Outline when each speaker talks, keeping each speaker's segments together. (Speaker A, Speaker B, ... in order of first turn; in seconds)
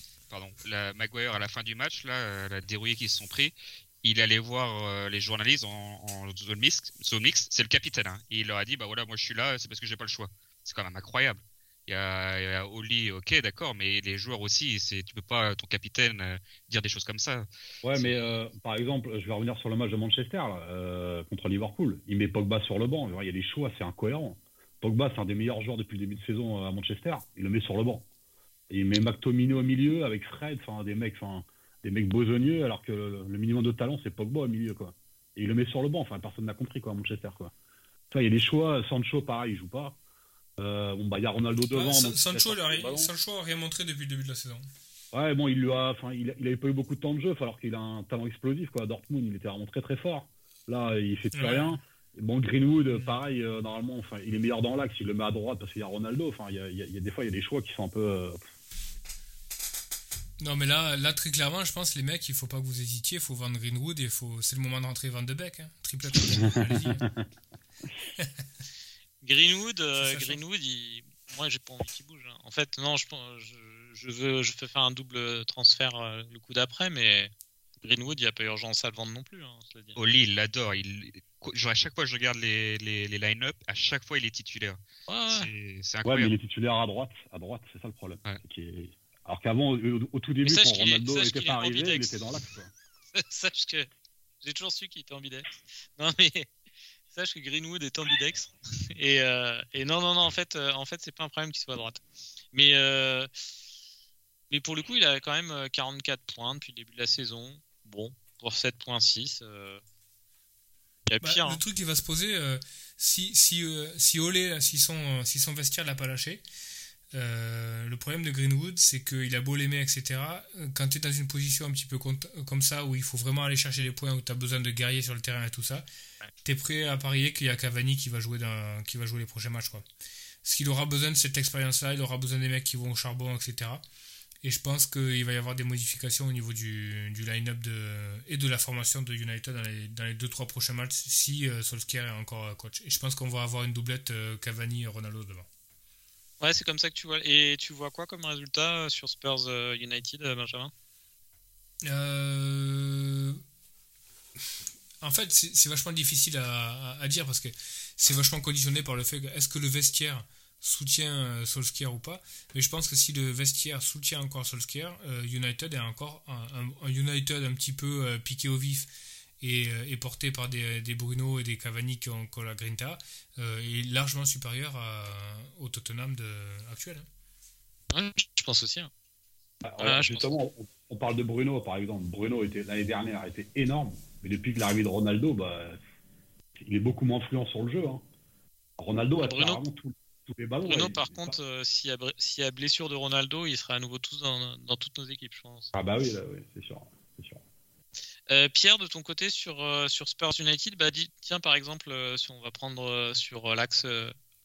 Speaker A: 0.3-18.2, 80.0-86.3
Speaker B: 17.8-28.1, 28.7-37.5, 38.1-40.0, 40.6-43.1, 45.1-58.5, 66.3-67.3, 86.0-92.7, 179.6-185.8, 186.6-188.0, 188.8-191.4, 195.7-197.4
Speaker C: 41.7-44.7, 51.3-51.8, 60.4-67.0, 68.2-68.4, 70.0-70.4, 111.2-116.4, 117.1-125.8, 126.5-129.8, 130.4-133.8, 134.4-145.5, 151.8-153.4, 155.0-168.9, 169.4-177.1
Speaker D: 69.2-80.0, 85.1-85.5, 90.4-92.2, 93.2-93.9, 94.4-96.5, 97.1-102.0, 102.5-103.3, 104.5-109.8, 111.1-111.6, 146.4-150.7, 177.9-178.9, 179.8-180.3, 189.2-189.6, 190.7-195.7, 198.3-204.1